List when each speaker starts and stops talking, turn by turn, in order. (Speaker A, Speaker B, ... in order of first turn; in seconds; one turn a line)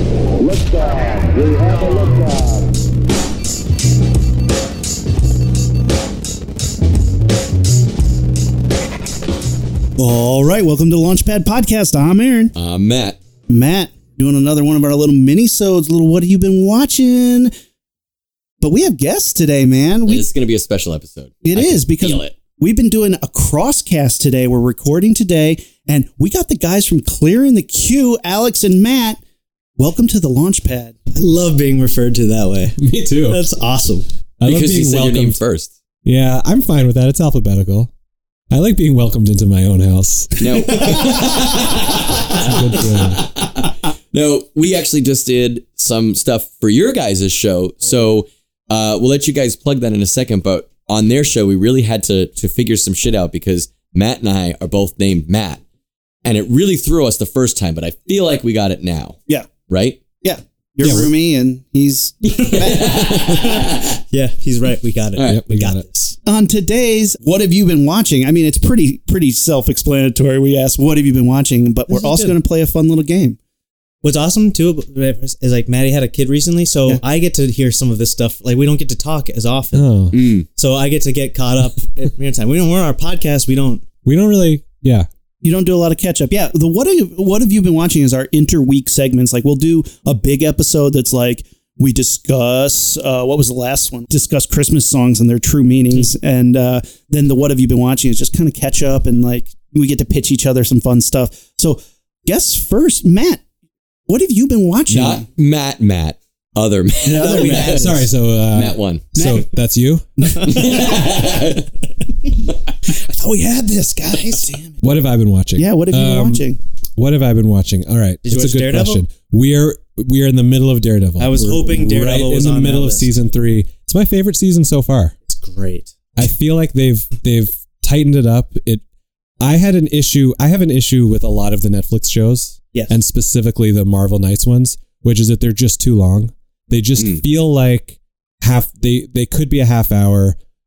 Speaker A: 0.4-2.8
Speaker B: 10.0-12.5
Speaker C: 12.6-13.2
Speaker B: 13.5-17.5
Speaker B: 18.6-20.2
Speaker C: 20.1-22.4
Speaker B: 21.4-29.2
Speaker B: 29.8-31.0
Speaker D: 31.1-34.1
Speaker E: 32.8-33.4
Speaker E: 34.4-35.4
Speaker C: 34.5-35.7
Speaker E: 36.0-37.9
Speaker E: 38.5-41.6
Speaker C: 40.4-55.6
Speaker E: 42.3-43.2
Speaker C: 56.2-60.0
Speaker B: 60.2-63.3
Speaker E: 60.8-61.1
Speaker C: 62.4-63.9
Speaker D: 62.5-66.2
Speaker C: 65.2-65.4
Speaker E: 65.3-65.8
Speaker B: 66.3-73.4
Speaker D: 71.9-72.4
Speaker D: 74.0-79.9
Speaker E: 79.7-80.1
Speaker C: 80.1-80.5
Speaker D: 80.6-83.8
Speaker E: 84.0-85.1
Speaker B: 85.4-103.4
Speaker B: 104.1-105.3
Speaker C: 104.9-108.0
Speaker D: 107.0-108.1
Speaker B: 107.2-107.7
Speaker E: 107.5-110.5
Speaker C: 108.5-109.1
Speaker B: 109.2-109.5
Speaker D: 110.4-111.0
Speaker C: 110.5-111.7
Speaker D: 113.0-114.5
Speaker B: 114.3-114.8
Speaker E: 114.8-125.2
Speaker B: 115.6-116.6
Speaker D: 118.2-119.0
Speaker D: 121.2-123.1
Speaker D: 125.3-125.9
Speaker E: 126.2-128.8
Speaker E: 129.4-140.4